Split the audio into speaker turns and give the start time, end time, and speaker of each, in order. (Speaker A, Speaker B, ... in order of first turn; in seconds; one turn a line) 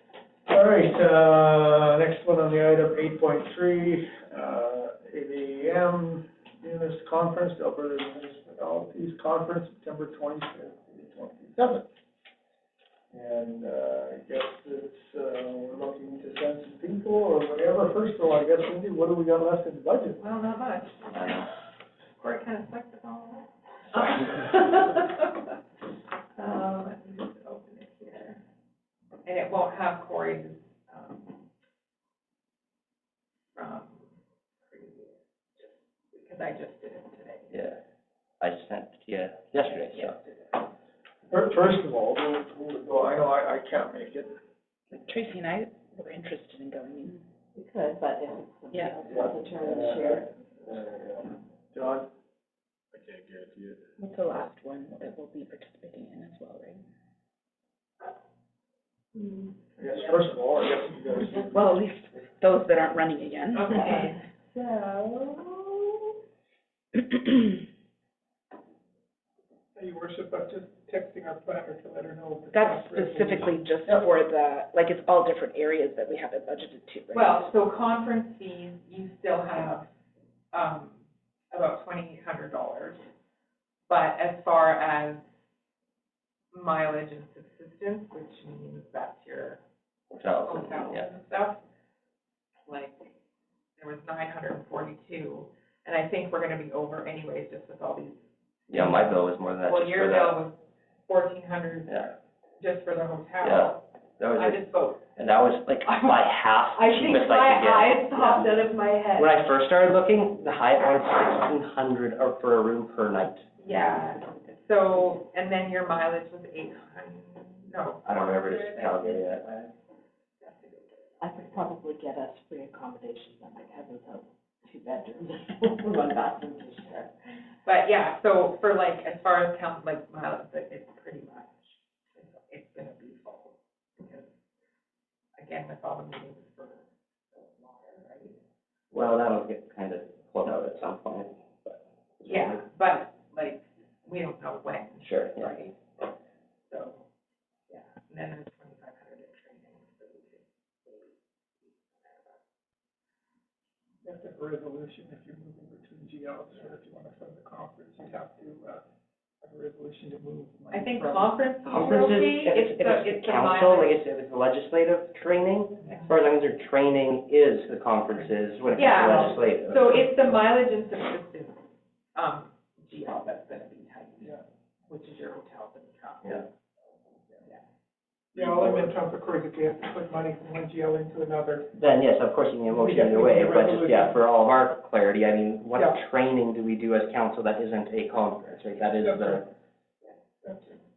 Speaker A: 0.5-11.9
Speaker A: 13.1-20.2
Speaker B: 20.2-21.4
Speaker C: 21.1-21.5
Speaker B: 22.2-25.5
Speaker B: 26.4-28.4
Speaker B: 29.2-31.4
Speaker B: 33.5-34.1
Speaker B: 34.7-37.5
Speaker C: 37.5-37.8
Speaker C: 38.4-40.2
Speaker A: 41.3-44.4
Speaker D: 44.9-47.2
Speaker E: 47.5-50.3
Speaker D: 48.7-49.1
Speaker A: 49.1-50.2
Speaker A: 51.7-52.1
Speaker A: 53.0-53.8
Speaker D: 54.0-56.9
Speaker E: 59.1-59.5
Speaker A: 59.8-61.7
Speaker D: 61.5-64.1
Speaker B: 63.5-65.6
Speaker E: 64.8-65.3
Speaker A: 69.8-73.9
Speaker D: 72.5-77.5
Speaker B: 77.1-79.9
Speaker B: 80.5-81.0
Speaker B: 81.5-83.0
Speaker B: 83.9-85.2
Speaker B: 86.5-89.6
Speaker C: 90.1-91.1
Speaker B: 90.2-91.6
Speaker B: 92.7-93.1
Speaker B: 93.8-102.0
Speaker C: 98.7-100.4
Speaker C: 101.9-102.1
Speaker B: 102.6-105.1
Speaker C: 103.4-104.6
Speaker C: 105.2-108.5
Speaker E: 106.8-109.3
Speaker B: 107.8-108.6
Speaker C: 109.2-113.5
Speaker B: 113.6-119.2
Speaker C: 118.0-119.6
Speaker B: 120.4-121.2
Speaker E: 121.2-127.1
Speaker B: 127.7-134.3
Speaker B: 135.4-138.4
Speaker C: 138.9-142.6
Speaker B: 142.2-145.8
Speaker C: 145.0-145.7
Speaker B: 146.7-147.1
Speaker B: 147.7-151.1
Speaker B: 152.1-152.3
Speaker A: 154.0-158.8
Speaker A: 159.4-161.3
Speaker B: 160.7-164.0
Speaker C: 161.7-170.1
Speaker B: 165.8-166.1
Speaker B: 168.8-171.6
Speaker A: 168.8-169.4
Speaker B: 172.2-176.4
Speaker A: 178.3-181.7
Speaker C: 178.4-178.9
Speaker C: 181.8-189.5
Speaker A: 182.7-184.2
Speaker A: 188.8-189.5
Speaker A: 190.4-190.8